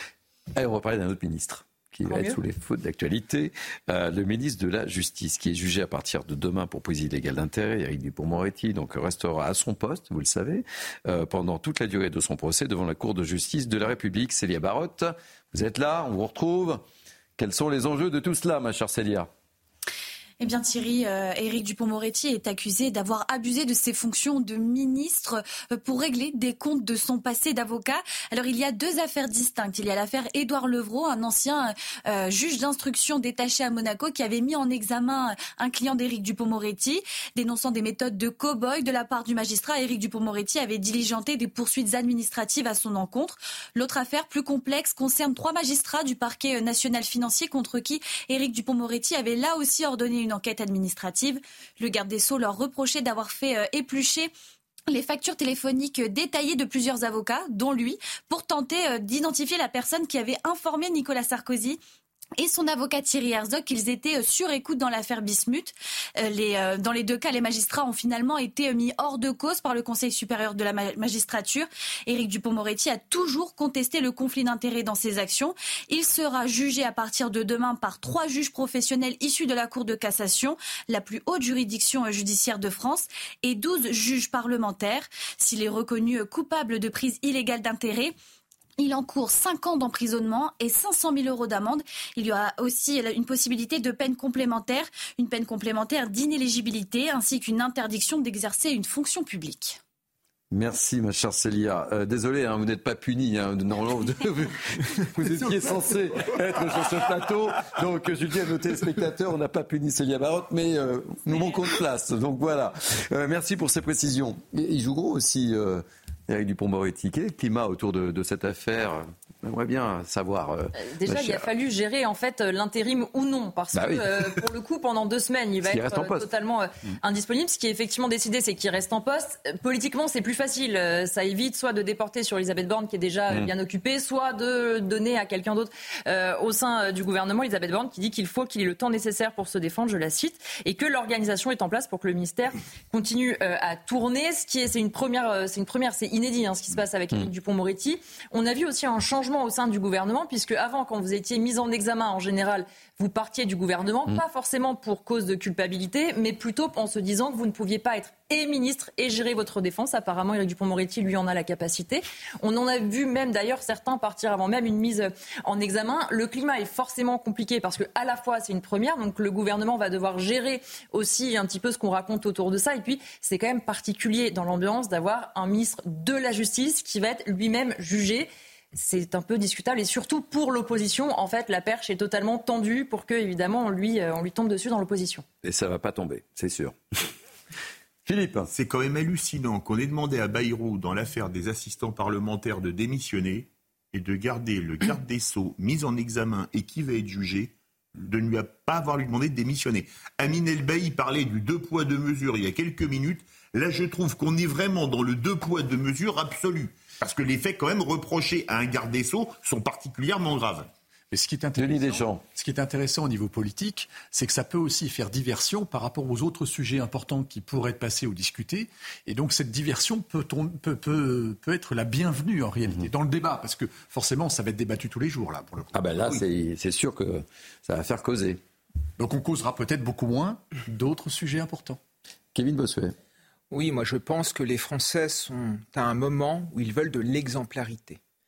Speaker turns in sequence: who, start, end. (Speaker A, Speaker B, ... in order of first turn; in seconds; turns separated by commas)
Speaker A: 0.6-16.8, Speaker B: 2.1-2.4, Speaker A: 17.4-19.3, Speaker C: 20.4-54.3, Speaker C: 54.9-61.8, Speaker C: 62.4-88.2, Speaker C: 88.8-99.8, Speaker A: 100.5-121.5, Speaker B: 120.8-185.2, Speaker A: 123.8-124.4, Speaker A: 125.7-126.3, Speaker A: 185.4-186.8, Speaker A: 188.1-188.5, Speaker D: 188.5-210.7, Speaker E: 211.1-225.7, Speaker A: 211.6-212.2, Speaker A: 225.7-228.4, Speaker E: 229.0-231.8, Speaker A: 232.3-232.9, Speaker F: 233.5-238.0